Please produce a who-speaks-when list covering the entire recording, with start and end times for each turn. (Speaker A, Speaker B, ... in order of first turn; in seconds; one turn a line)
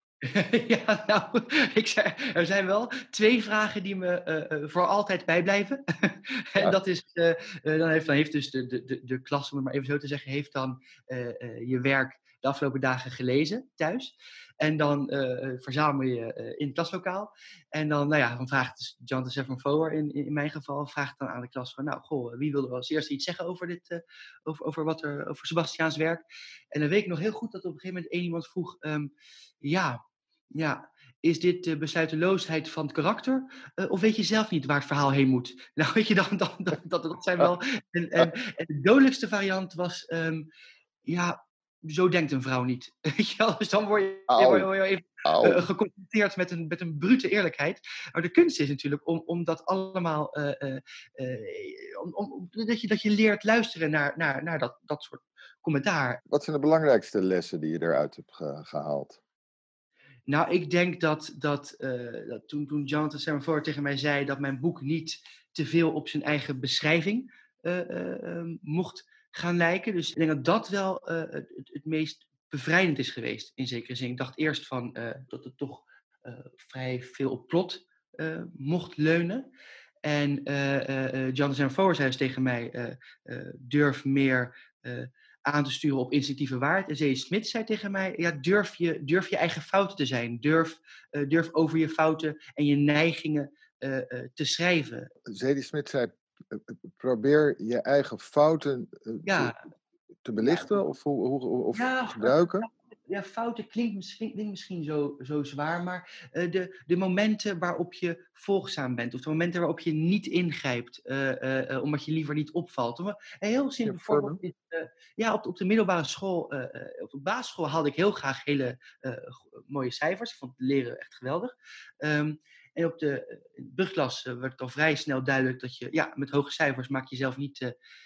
Speaker A: 0.2-30.0
Speaker A: 30.6-40.5
Speaker A: 41.0-56.2
Speaker B: 44.3-44.7
Speaker B: 45.2-45.6
Speaker B: 56.3-59.2
Speaker A: 60.3-79.5
Speaker A: 80.0-95.1
Speaker B: 95.3-99.5
Speaker A: 99.3-99.5
Speaker B: 100.2-102.7
Speaker A: 100.4-100.7
Speaker A: 101.7-127.8
Speaker B: 113.8-114.4